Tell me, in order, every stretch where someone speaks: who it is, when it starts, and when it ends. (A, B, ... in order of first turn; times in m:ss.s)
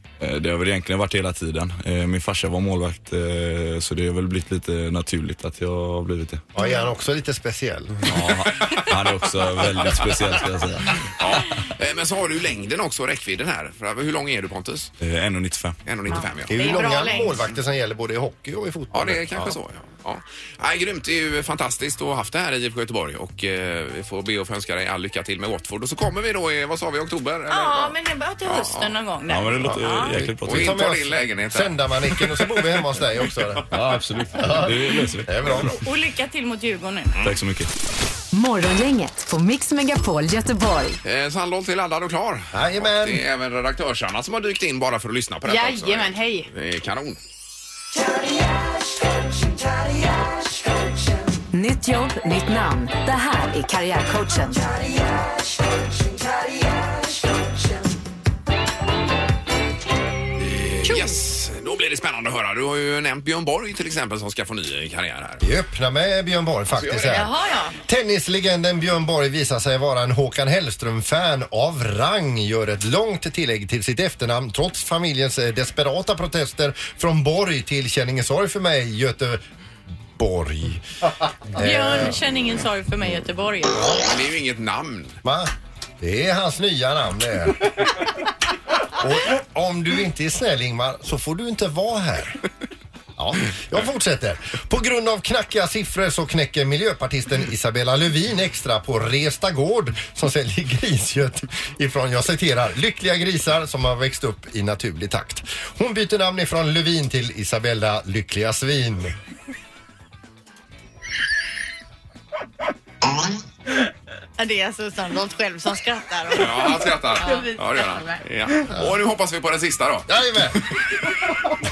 0:00.2-0:06.5 A
0:06.6-0:08.2 B
0:06.6-0:06.8 C
0:08.1-0:11.0 A
0:08.6-0:08.9 D
0:11.2-0:14.9 D
0:15.0-0:15.8 A
0:15.9-0:16.9 D
0:16.1-0:17.4 C
0:16.5-0:19.6 B
0:18.9-0:28.9 D
0:27.5-0:30.2 C
0:29.3-0:30.9 A
0:29.6-0:33.8 B
0:30.4-0:32.6 D
0:33.7-0:35.7 A
0:34.3-0:35.7 B
0:35.4-0:35.8 D
0:35.8-0:37.2 C
0:37.2-0:37.7 A
0:38.3-0:41.0 E
0:41.0-0:47.2 D
0:42.5-0:43.2 B
0:45.5-0:46.5 C
0:51.5-0:54.7 E
1:00.4-1:05.5 D
1:00.8-1:01.2 C
1:05.4-1:07.3 B
1:06.7-1:07.3 D
1:07.1-1:07.8 C
1:07.9-1:19.4 B
1:20.2-1:22.2 B
1:21.6-1:23.9 C
1:23.8-1:24.0 B
1:24.0-1:25.2 D
1:25.2-1:28.0 B
1:28.9-1:32.4 B
1:33.2-1:49.2 B
1:54.4-1:58.2 C
1:56.3-2:01.3 D
2:00.1-2:00.6 B